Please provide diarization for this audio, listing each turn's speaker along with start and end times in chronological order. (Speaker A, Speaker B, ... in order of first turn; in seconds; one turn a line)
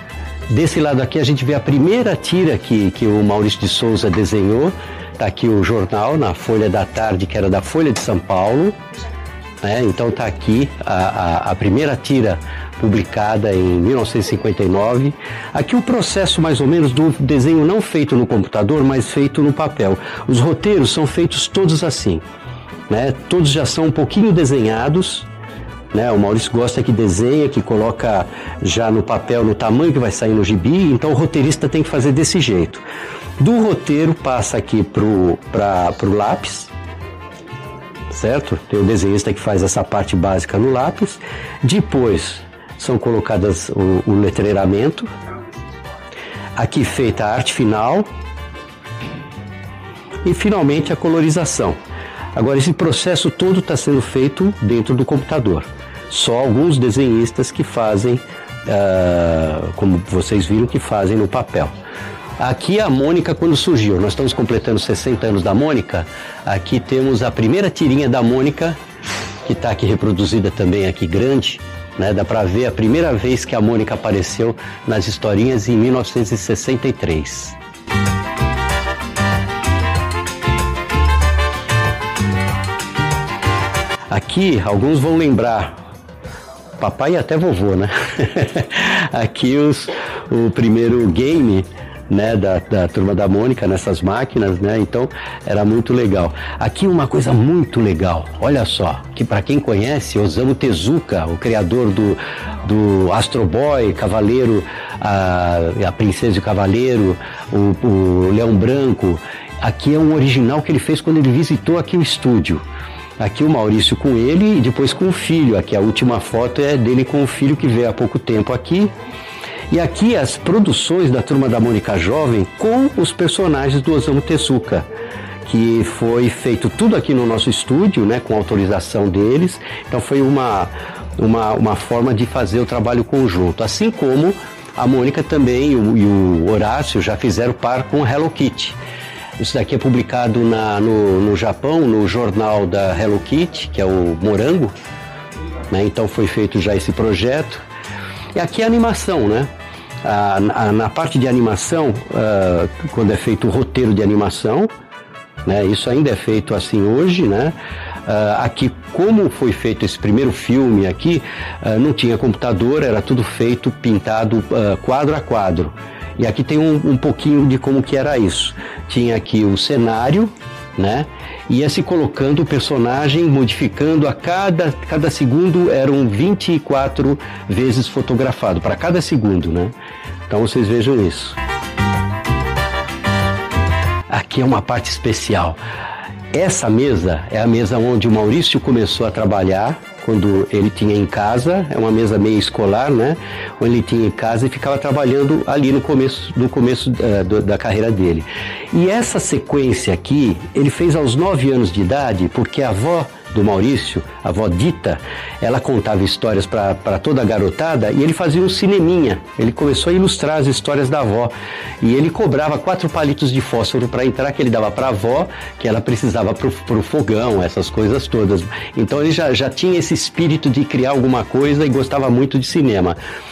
Speaker A: 0.5-8.8
Speaker A: 9.6-22.2
Speaker A: 22.9-25.3
Speaker A: 25.9-32.9
Speaker A: 33.4-36.7
Speaker A: 38.1-45.1
Speaker A: 46.5-48.1
Speaker A: 50.2-51.8
Speaker A: 52.3-61.8
Speaker A: 62.4-68.8
Speaker A: 69.4-77.6
Speaker A: 84.1-85.8
Speaker A: 86.8-112.7
Speaker A: 113.2-118.9
Speaker A: 119.7-124.9
Speaker A: 125.5-138.8
Speaker A: 139.4-144.8
Speaker A: 145.7-147.7
Speaker A: 148.3-149.5
Speaker A: 150.0-154.7
Speaker A: 155.4-179.7
Speaker A: 180.3-181.4
Speaker A: 184.1-185.6
Speaker A: 186.3-223.0